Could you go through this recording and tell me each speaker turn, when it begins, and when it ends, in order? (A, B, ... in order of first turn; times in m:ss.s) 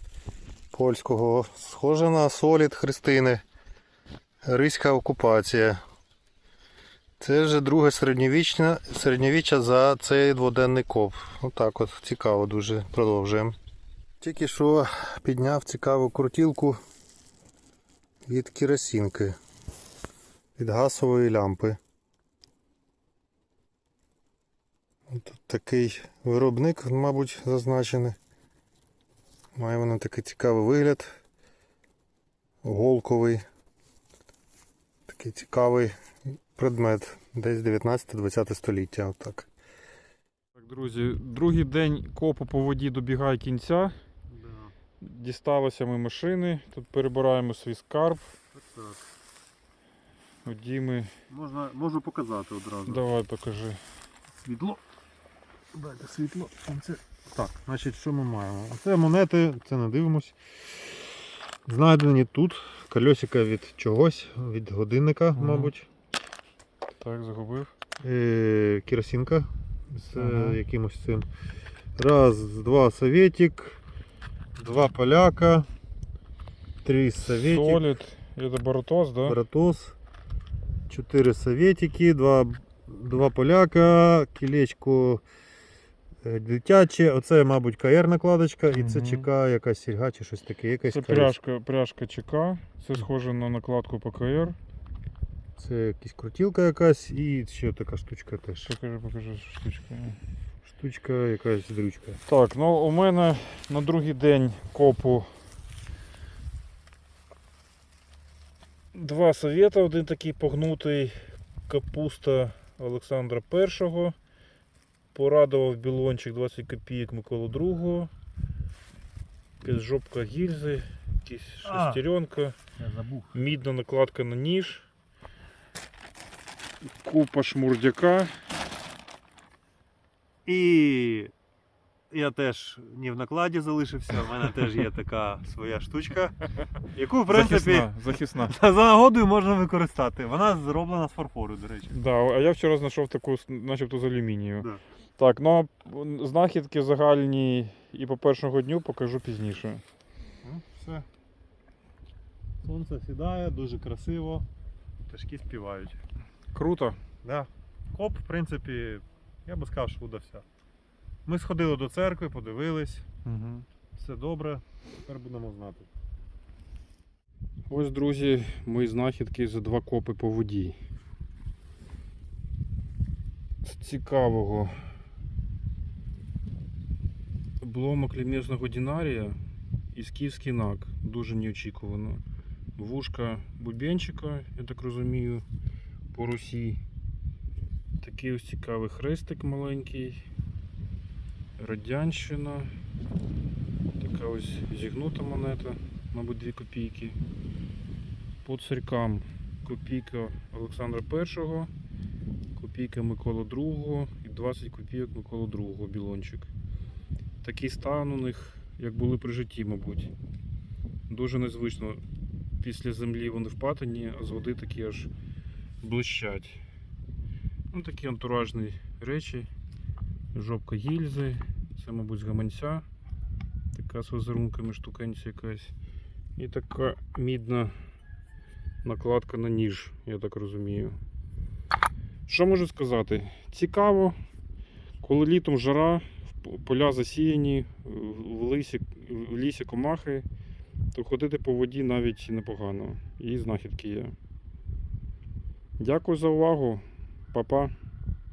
0:00.7-0:03.4 A
0:04.4-0:05.8 A
0:07.2-0:13.6 A
0:14.2-0:16.8 A
0:18.3-0:19.4 A
0:20.6-0:21.8 A
0:25.1-0:28.2 A
0:29.6-0:31.2 A
0:32.6-0:33.4 A
0:35.1-0:35.9 A
0:36.6-0:39.5 A
0:40.6-0:44.0 B
0:44.3-0:44.7 A
0:45.0-0:48.3 B
0:48.5-0:49.0 A
0:50.4-0:51.1 B
0:51.3-0:53.0 A
0:52.9-0:53.8 B
0:54.4-0:54.8 A
0:55.7-1:00.4 A
1:01.7-1:05.9 A
1:05.4-1:05.7 B
1:07.0-1:07.7 B
1:08.0-1:11.3 A
1:10.2-1:10.6 B
1:12.0-1:13.8 A
1:14.6-1:15.7 A
1:16.8-1:17.8 A
1:17.2-1:19.4 B
1:19.2-1:20.0 A
1:20.9-1:25.2 A
1:26.2-1:31.4 A
1:28.7-1:29.3 B
1:30.8-1:34.6 B
1:35.6-1:38.7 A
1:38.6-1:40.2 B
1:40.6-1:42.2 A
1:42.3-1:45.3 B
1:48.9-1:54.2 B
1:55.1-1:58.1 B
1:59.6-2:02.6 B
2:01.6-2:02.0 A
2:02.8-2:03.4 A
2:03.3-2:04.9 B
2:06.8-2:08.4 B
2:10.5-2:11.3 A
2:12.1-2:16.4 A
2:16.9-2:21.9 A
2:17.3-2:18.6 B
2:21.9-2:29.8 B
2:30.4-2:31.1 A
2:32.6-2:34.5 A
2:35.1-2:36.0 A
2:36.5-2:37.0 B
2:37.2-2:40.4 A
2:41.2-2:43.1 A
2:43.2-2:43.6 B
2:44.0-2:45.9 A
2:47.7-2:50.8 B
2:53.6-2:54.9 B
2:57.6-2:59.4 B
2:59.9-3:02.2 B
3:02.8-3:05.4 B
3:06.1-3:06.8 B
3:08.0-3:10.2 B
3:11.6-3:12.7 B
3:14.0-3:17.2 B
3:18.4-3:21.7 B
3:22.6-3:26.5 B
3:27.4-3:30.1 B
3:31.1-3:32.0 B
3:32.6-3:35.1 B
3:35.8-3:36.6 B
3:37.7-3:39.5 B
3:40.3-3:42.8 B
3:43.7-3:45.7 B
3:46.4-3:47.8 B
3:48.8-3:51.0 B
3:52.3-3:54.2 B
3:55.0-4:00.2 B
4:00.9-4:04.1 B
4:05.8-4:07.7 B